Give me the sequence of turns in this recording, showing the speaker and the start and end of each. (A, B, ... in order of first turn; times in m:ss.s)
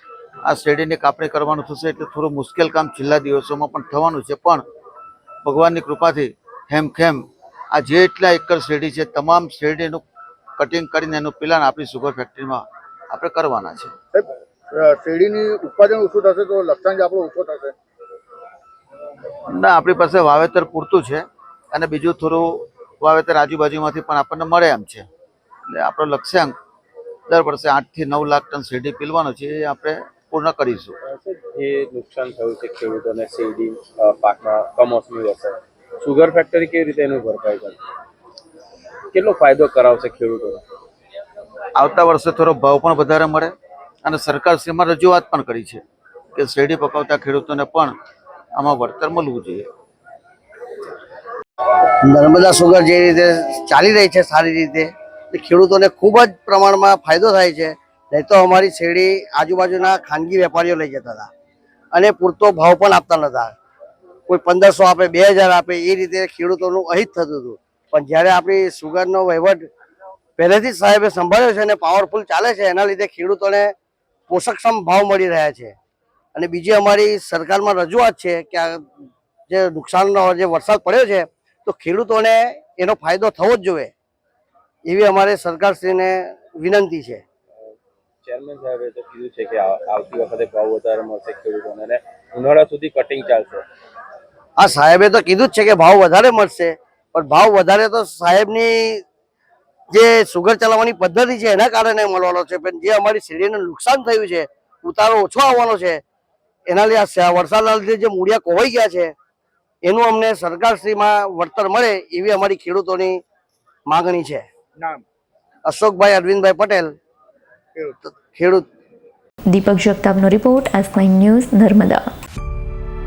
0:00.4-0:04.6 A
0:05.4-0:10.0 A
0:10.6-0:13.9 A
0:14.1-0:17.7 B
0:19.5-0:25.1 A
0:25.7-0:26.5 A
0:27.3-0:31.0 A
0:31.1-0:37.8 C
0:39.1-0:40.6 C
0:41.8-0:45.8 A
0:46.3-0:47.9 A
0:48.6-0:49.7 A
0:52.0-1:01.3 D
1:01.9-1:03.5 D
1:04.3-1:09.7 D
1:10.4-1:13.7 D
1:14.3-1:15.7 D
1:16.3-1:18.8 D
1:19.5-1:23.9 D
1:24.8-1:27.2 D
1:28.2-1:33.6 C
1:34.6-1:39.0 D
1:39.9-1:46.0 D
1:46.6-1:49.1 D
1:49.8-1:53.2 D
1:53.9-1:54.4 D
1:55.6-1:57.0 D
1:58.1-1:58.6 D
1:59.5-2:02.0 E